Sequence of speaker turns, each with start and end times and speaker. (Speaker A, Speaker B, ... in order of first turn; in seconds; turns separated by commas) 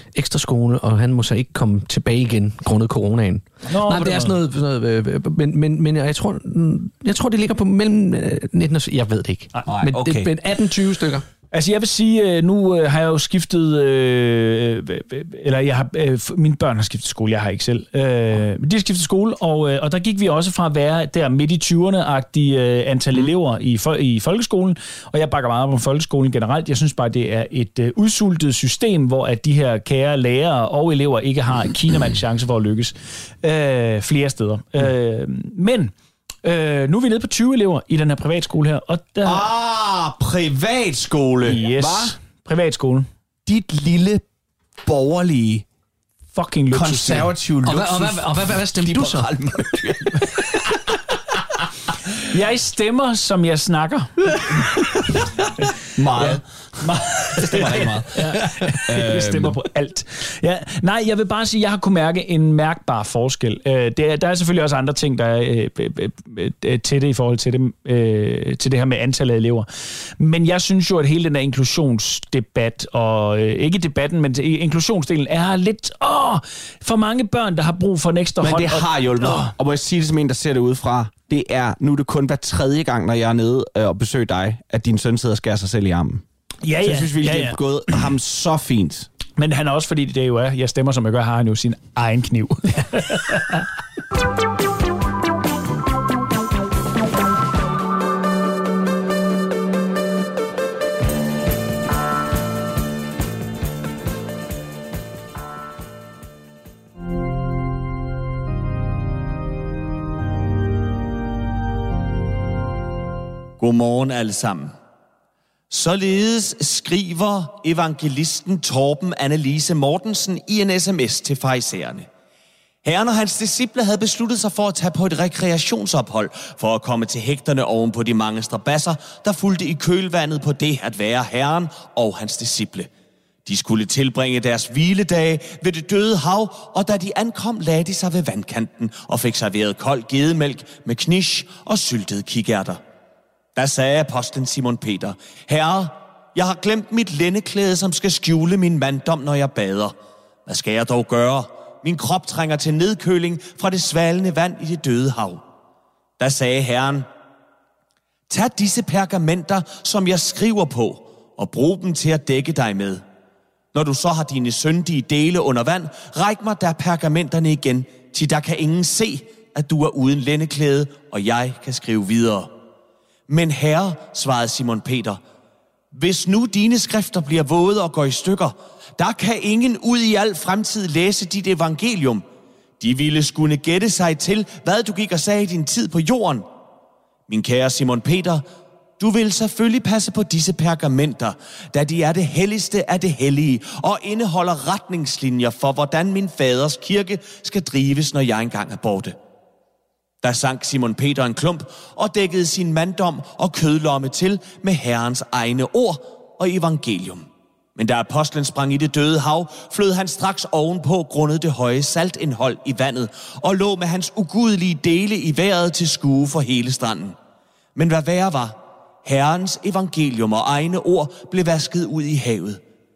Speaker A: 0.1-11.2, Speaker B: 3.7-4.4, Speaker C: 9.7-10.3, Speaker B: 11.5-35.9, Speaker B: 36.4-39.5, Speaker C: 39.2-42.1, Speaker B: 41.4-43.1, Speaker C: 43.5-44.2, Speaker C: 44.8-45.6, Speaker B: 46.3-47.3, Speaker C: 46.7-50.5, Speaker A: 47.6-49.9, Speaker B: 52.3-54.3, Speaker C: 56.0-58.3, Speaker B: 56.2-69.7, Speaker A: 58.3-58.6, Speaker C: 58.8-59.6, Speaker B: 70.2-79.5, Speaker C: 78.4-86.2, Speaker B: 86.6-87.6, Speaker C: 86.8-89.1, Speaker B: 89.4-93.7, Speaker D: 113.6-114.7, Speaker D: 115.7-122.1, Speaker D: 122.8-132.9, Speaker D: 133.4-142.8, Speaker D: 143.5-149.9, Speaker D: 150.4-155.4, Speaker D: 156.2-157.1, Speaker D: 158.3-163.0, Speaker D: 163.7-172.5, Speaker D: 173.3-175.2, Speaker D: 175.9-182.2, Speaker D: 182.8-186.5, Speaker D: 187.3-188.4, Speaker D: 189.0-199.2, Speaker D: 200.2-217.2, Speaker D: 217.8-222.6